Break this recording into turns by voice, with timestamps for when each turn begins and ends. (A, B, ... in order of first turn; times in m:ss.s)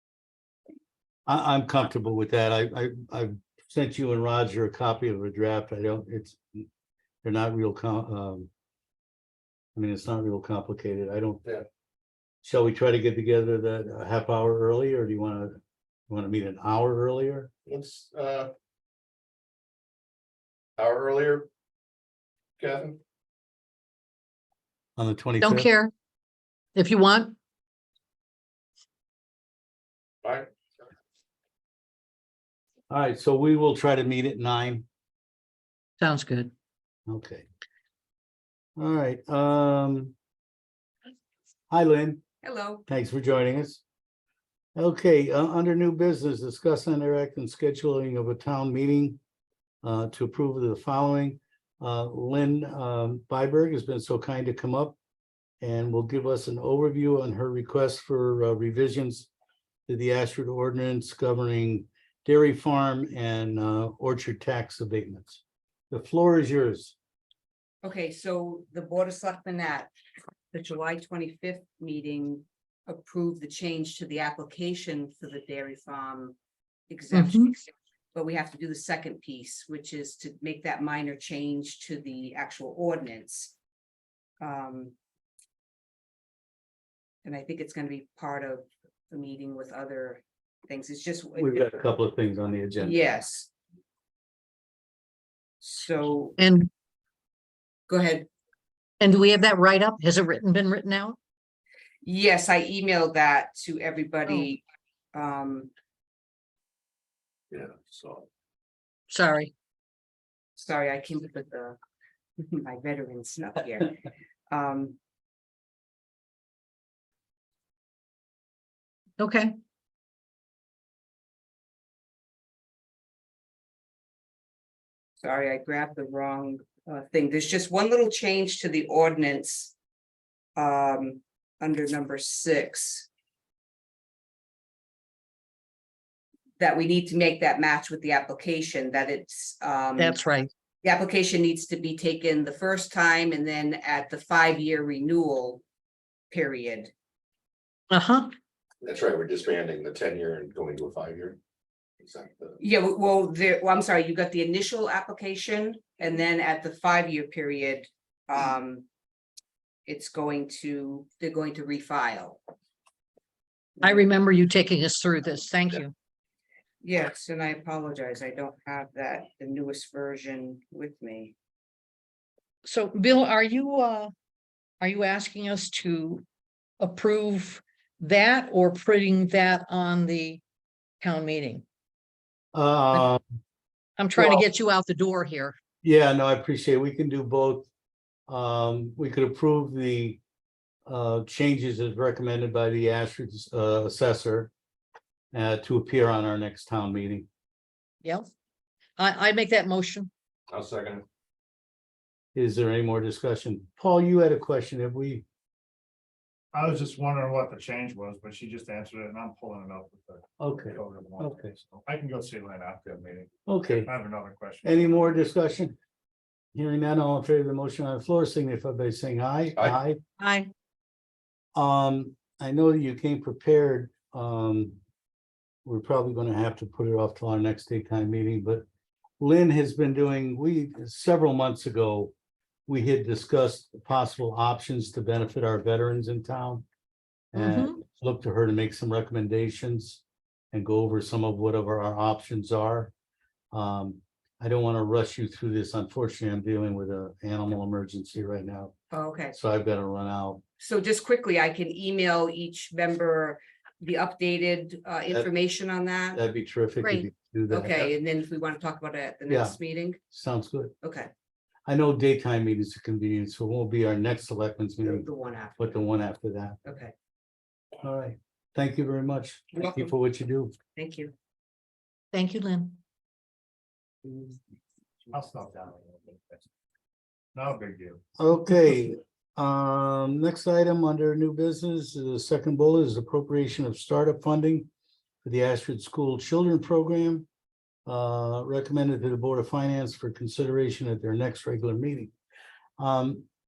0:01.2-0:06.6 A
0:07.2-0:08.5 A
0:09.7-0:11.4 A
0:12.4-0:15.6 A
0:16.1-0:17.5 A
0:17.7-0:18.5 B
0:20.8-0:21.5 B
0:22.6-0:23.0 B
0:25.0-0:25.7 A
0:25.4-0:25.9 C
0:26.7-0:27.4 C
0:30.2-0:30.5 B
0:32.9-0:34.8 A
0:36.0-0:36.5 C
0:37.1-0:37.4 A
0:38.8-0:40.1 A
0:41.7-0:42.2 A
0:42.4-0:42.8 D
0:42.9-0:43.8 A
0:44.8-0:49.2 A
0:49.8-0:55.0 A
0:55.6-0:59.3 A
0:59.9-1:06.9 A
1:07.8-1:09.9 D
1:10.5-1:16.4 D
1:16.9-1:23.5 D
1:17.1-1:17.5 C
1:24.4-1:24.9 D
1:27.2-1:31.6 D
1:31.4-1:33.0 A
1:32.8-1:33.5 D
1:35.6-1:36.4 D
1:36.4-1:36.7 C
1:37.9-1:38.3 D
1:39.0-1:41.2 C
1:42.0-1:44.6 D
1:45.1-1:45.7 D
1:47.5-1:48.3 B
1:49.1-1:49.5 C
1:50.6-1:51.8 D
1:52.4-1:53.9 D
1:54.5-1:55.0 D
1:59.2-1:59.5 C
2:05.2-2:09.7 D
2:10.6-2:13.1 D
2:16.6-2:25.6 D
2:20.0-2:20.5 C
2:26.3-2:26.9 D
2:27.9-2:28.3 C
2:28.8-2:31.4 B
2:32.0-2:32.6 B
2:32.6-2:38.8 D
2:39.8-2:42.4 D
2:43.8-2:44.1 D
2:43.8-2:45.9 C
2:46.8-2:51.3 D
2:52.6-2:54.1 C
2:54.8-2:56.2 C
2:56.8-3:00.4 C
3:01.0-3:01.6 C
3:02.5-3:03.2 A
3:04.0-3:05.6 C
3:05.8-3:07.7 A
3:08.3-3:10.2 A
3:10.8-3:14.5 A
3:15.3-3:17.3 A
3:18.0-3:18.3 C
3:19.0-3:20.1 C
3:20.5-3:21.0 B
3:22.3-3:25.2 A
3:26.5-3:35.2 E
3:30.4-3:31.5 A
3:33.5-3:33.9 A
3:34.6-3:35.8 A
3:36.5-3:40.0 A
3:40.2-3:40.5 C
3:41.5-3:44.8 A
3:45.6-3:48.6 A
3:49.2-3:52.1 A
3:52.7-3:56.6 A
3:57.3-4:02.9 A
3:57.4-3:57.8 C
4:03.5-4:08.7 A
4:08.9-4:09.3 D
4:09.3-4:10.4 A
4:10.6-4:16.2 D
4:16.1-4:17.9 A
4:16.8-4:17.1 C
4:17.5-4:20.0 D
4:19.3-4:19.6 A
4:20.1-4:20.7 A
4:20.8-4:21.1 D
4:21.6-4:25.0 A
4:24.8-4:25.8 D
4:25.6-4:26.6 A
4:26.6-4:26.9 D
4:27.8-4:30.6 A
4:29.6-4:29.9 D
4:30.7-4:31.1 D
4:32.1-4:32.8 C
4:35.1-4:36.4 E
4:37.3-4:38.0 E
4:38.2-4:44.7 A
4:45.2-4:47.3 A
4:47.8-4:52.1 A
4:52.8-4:53.2 A